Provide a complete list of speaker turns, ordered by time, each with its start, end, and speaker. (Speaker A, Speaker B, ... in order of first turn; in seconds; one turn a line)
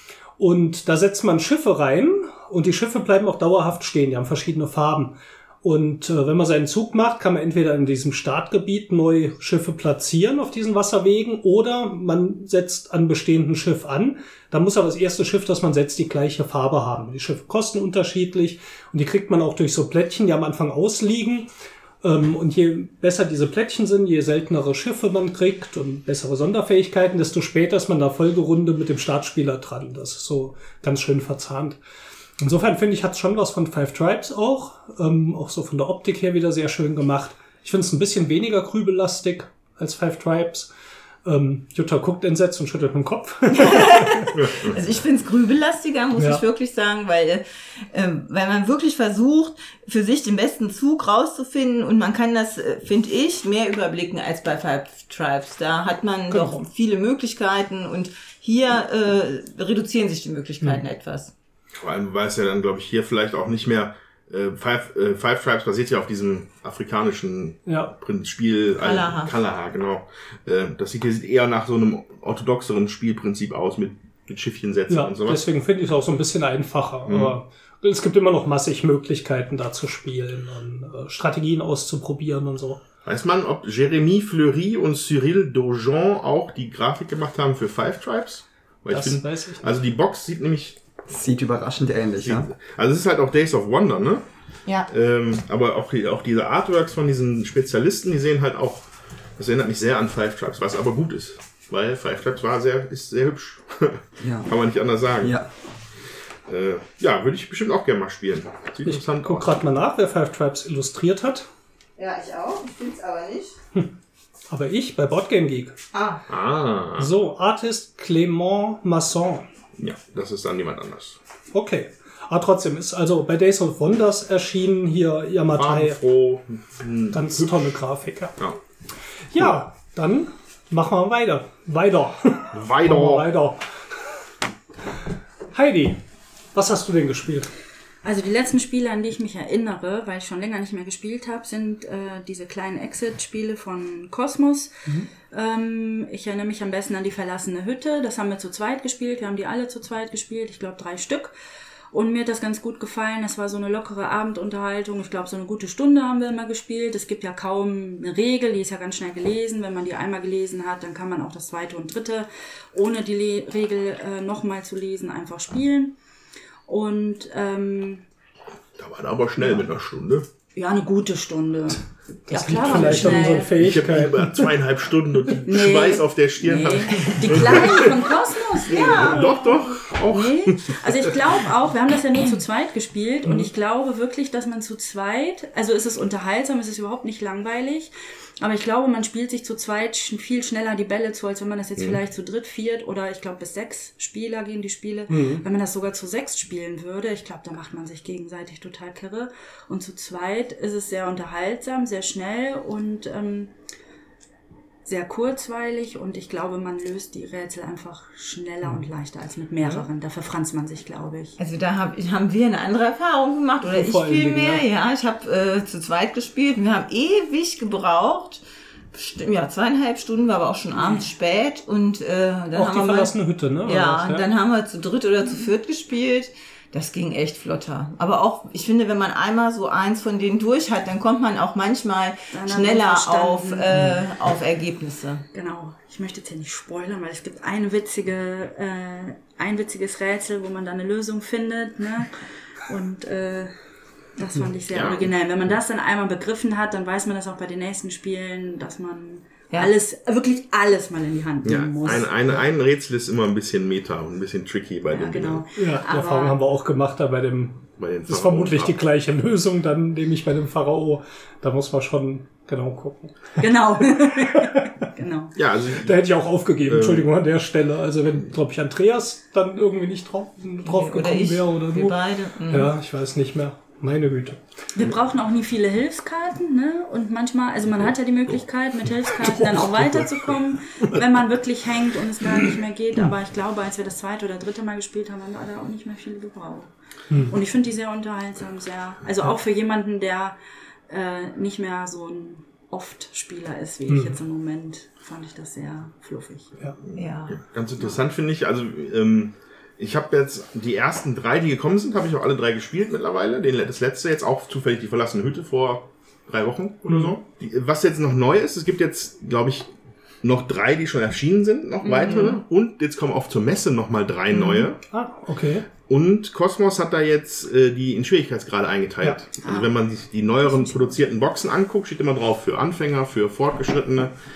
Speaker A: 0.4-21.5
Speaker A: 22.0-31.8
Speaker A: 32.4-40.7
Speaker A: 41.2-44.3
Speaker B: 43.5-61.3
Speaker C: 44.4-44.8
Speaker A: 46.2-46.4
Speaker A: 56.3-56.7
Speaker C: 61.7-75.4
Speaker A: 67.7-67.9
Speaker B: 68.8-69.3
Speaker A: 74.9-82.8
Speaker C: 77.0-77.3
Speaker C: 83.0-90.8
Speaker A: 88.9-89.7
Speaker D: 91.1-92.5
Speaker C: 92.2-94.2
Speaker C: 94.9-105.4
Speaker D: 104.2-104.5
Speaker D: 105.2-105.5
Speaker C: 106.5-109.6
Speaker A: 108.8-111.5
Speaker B: 112.0-113.6
Speaker A: 114.5-115.8
Speaker B: 115.9-116.2
Speaker C: 116.3-117.1
Speaker A: 117.0-119.5
Speaker C: 119.8-121.2
Speaker A: 121.5-126.0
Speaker C: 125.5-127.6
Speaker A: 127.1-128.4
Speaker A: 129.3-133.7
Speaker C: 132.5-133.3
Speaker A: 135.5-136.0
Speaker A: 136.5-137.5
Speaker E: 138.0-144.7
Speaker E: 145.3-151.3
Speaker E: 151.9-166.0
Speaker E: 166.7-168.0
Speaker C: 168.8-170.3
Speaker E: 170.5-173.5
Speaker A: 172.3-174.5
Speaker C: 173.0-181.2
Speaker E: 175.5-203.5
Speaker A: 195.1-195.4
Speaker E: 204.8-211.4
Speaker B: 211.4-218.4
Speaker A: 213.7-214.6
Speaker B: 218.9-223.1
Speaker A: 222.5-224.2
Speaker B: 223.7-235.2
Speaker E: 232.3-233.7
Speaker E: 235.3-243.5
Speaker E: 244.2-252.1
Speaker C: 244.7-245.1
Speaker C: 251.4-255.4
Speaker E: 254.9-256.4
Speaker A: 255.6-264.8
Speaker C: 257.8-258.8
Speaker E: 263.4-265.4
Speaker C: 265.4-266.0
Speaker A: 265.8-272.0
Speaker C: 266.6-267.1
Speaker B: 270.6-272.7
Speaker A: 272.5-274.4
Speaker E: 274.8-286.7
Speaker C: 279.0-281.0
Speaker A: 287.1-287.4
Speaker E: 287.3-290.4
Speaker E: 290.9-296.5
Speaker A: 293.9-294.2
Speaker C: 296.9-309.7
Speaker B: 296.9-297.4
Speaker A: 306.9-307.1
Speaker C: 310.2-314.8
Speaker B: 311.8-312.4
Speaker A: 314.9-315.7
Speaker C: 315.8-324.1
Speaker B: 319.4-319.7